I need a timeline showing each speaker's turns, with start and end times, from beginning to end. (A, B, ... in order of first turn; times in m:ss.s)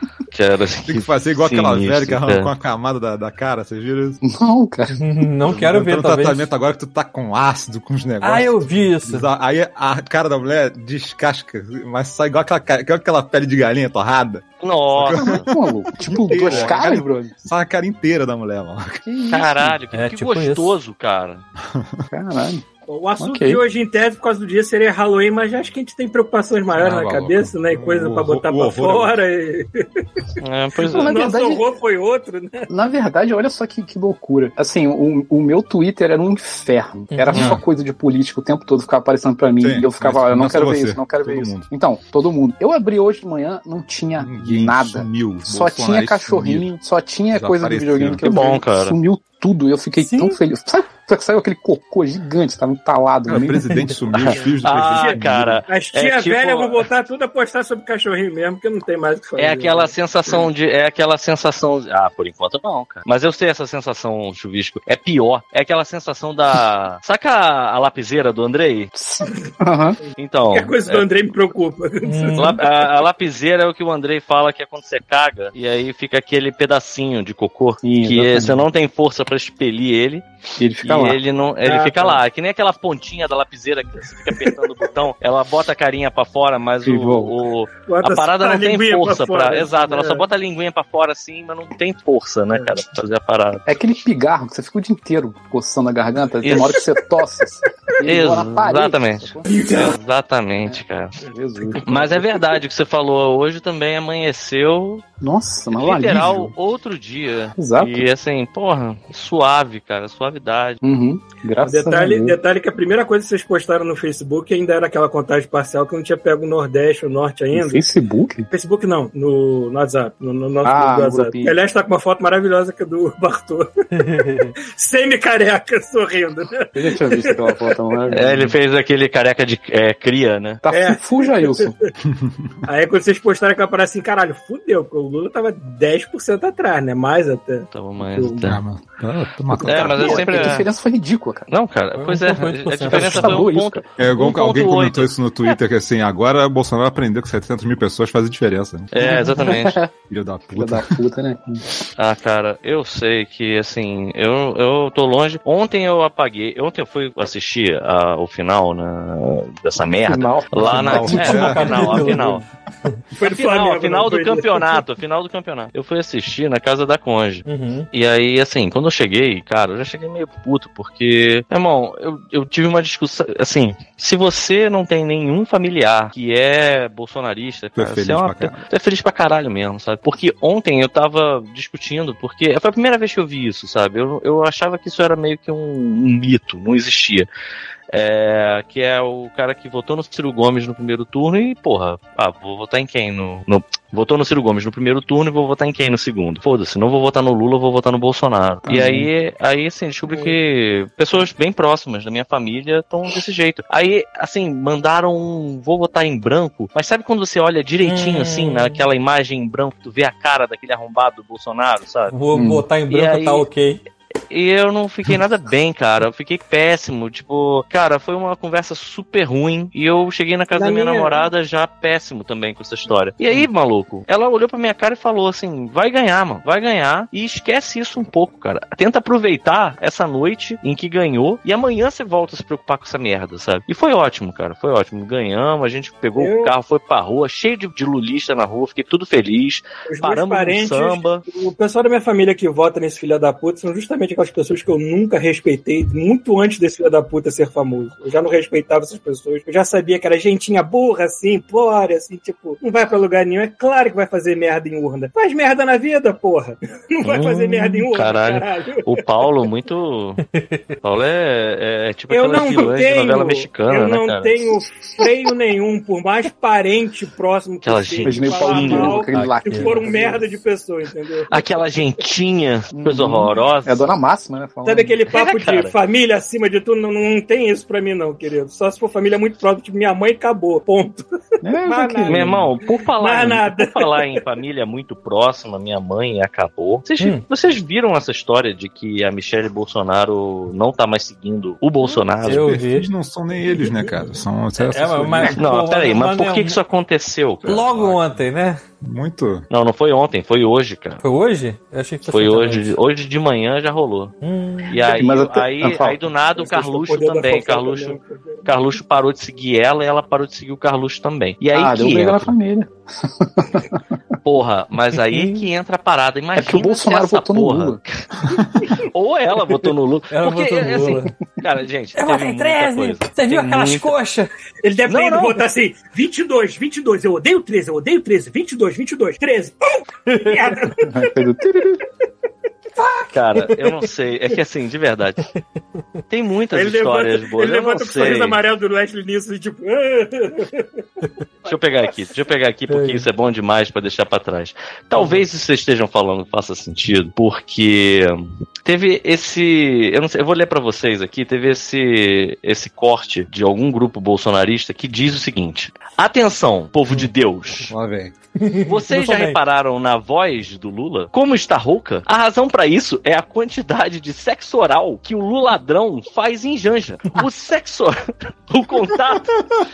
0:00.3-0:02.5 A
0:00.9-0:04.2 B
0:04.2-0:05.0 C
0:04.9-0:06.5 D
0:05.5-0:19.0 B
0:08.2-0:09.3 D
0:14.6-0:15.4 A
0:15.1-0:17.3 C
0:19.0-0:19.8 C
0:19.3-0:21.4 A
0:19.9-0:20.8 D
0:21.6-0:22.0 B
0:22.1-0:22.6 C
0:22.9-0:30.2 E
0:23.2-0:23.6 C
0:26.7-0:29.2 B
0:30.4-0:31.2 A
0:30.8-0:32.7 E
0:30.8-0:31.6 C
0:32.7-0:53.8 C
0:37.1-0:37.5 D
0:39.6-0:41.7 B
0:44.2-0:46.7 B
0:47.3-0:48.5 B
0:48.2-0:49.0 A
0:50.0-0:50.4 D
0:53.3-0:55.6 B
0:54.1-0:59.9 E
0:54.2-0:56.8 A
0:59.4-1:08.9 A
1:08.9-1:10.0 C
1:10.2-1:11.1 A
1:10.5-1:12.6 E
1:12.0-1:12.5 D
1:12.4-1:20.2 A
1:17.8-1:18.6 C
1:20.6-1:21.2 C
1:20.8-1:33.6 A
1:21.6-1:22.2 E
1:26.8-1:27.3 C
1:27.8-1:30.2 E
1:33.6-1:39.6 C
1:36.4-1:36.8 A
1:36.5-1:36.9 E
1:38.0-1:41.2 A
1:39.5-1:39.9 E
1:40.6-1:42.2 C
1:41.7-1:42.2 E
1:41.8-1:45.0 A
1:45.2-1:46.5 C
1:45.8-1:50.8 A
1:47.6-1:48.1 C
1:50.8-1:52.4 C
1:51.6-1:57.8 E
1:57.5-1:58.5 C
1:58.5-2:03.7 E
2:00.6-2:01.5 C
2:03.9-2:04.5 D
2:04.7-2:07.5 E
2:06.7-2:08.6 C
2:08.1-2:10.6 A
2:10.6-2:11.7 C
2:10.7-2:11.9 E
2:12.0-2:12.6 B
2:12.6-2:18.4 E
2:17.7-2:18.6 A
2:18.4-2:20.2 B
2:19.6-2:20.7 A
2:19.6-2:20.6 E
2:19.7-2:21.5 C
2:21.5-2:25.6 A
2:21.9-2:23.5 D
2:22.8-2:23.8 C
2:24.0-2:28.9 B
2:28.9-2:29.8 A
2:29.0-2:29.9 C
2:30.0-2:30.9 B
2:30.6-2:31.6 C
2:32.0-2:42.4 A
2:40.0-2:42.4 C
2:40.6-2:42.1 B
2:41.1-2:42.3 D
2:43.2-2:44.8 E
2:43.2-3:07.3 A
2:47.4-2:47.9 D
2:57.8-2:58.6 B
3:07.9-3:32.1 A
3:18.6-3:19.1 C
3:27.8-3:28.8 D
3:32.1-3:33.8 D
3:32.3-3:32.6 C
3:32.9-3:33.4 A
3:34.3-4:01.2 A
3:40.5-3:41.3 E
3:56.2-3:56.5 E
3:59.9-4:19.0 E
4:17.0-4:20.2 A
4:20.3-4:20.7 D
4:20.8-4:24.4 A
4:22.1-4:31.6 E
4:27.6-4:29.5 A
4:28.0-4:30.4 C
4:31.3-4:33.9 A
4:32.7-4:35.0 C
4:34.6-4:41.0 E
4:35.1-4:35.7 A
4:41.4-4:42.5 C
4:41.6-4:44.2 E
4:42.1-4:52.6 A
4:52.2-4:52.9 D
4:52.2-4:55.4 B
4:54.7-4:56.6 D
4:55.4-4:57.7 A
4:57.4-4:58.6 D
4:57.5-4:58.2 B
4:58.8-4:59.4 B
4:59.5-5:01.0 A
5:01.0-5:02.8 D
5:02.0-5:04.1 A
5:04.2-5:04.8 D
5:04.7-5:12.3 A
5:04.8-5:06.0 C
5:06.4-5:08.5 E
5:11.5-5:13.8 C
5:14.2-5:17.9 A
5:15.1-5:15.4 D
5:16.4-5:17.8 C
5:18.8-5:23.9 A
5:20.1-5:21.1 D
5:21.9-5:24.3 D
5:24.6-5:29.6 E
5:24.9-5:25.4 A
5:30.1-5:30.4 D
5:30.1-5:30.9 E
5:30.8-5:31.8 C
5:32.8-5:33.6 D
5:33.1-5:35.3 A
5:36.1-5:38.4 A
5:36.5-5:40.8 E
5:41.4-5:57.7 A
5:42.7-5:43.0 D
5:45.0-5:45.2 D
5:57.7-5:58.1 B
5:58.4-5:59.4 D
5:58.6-6:09.4 A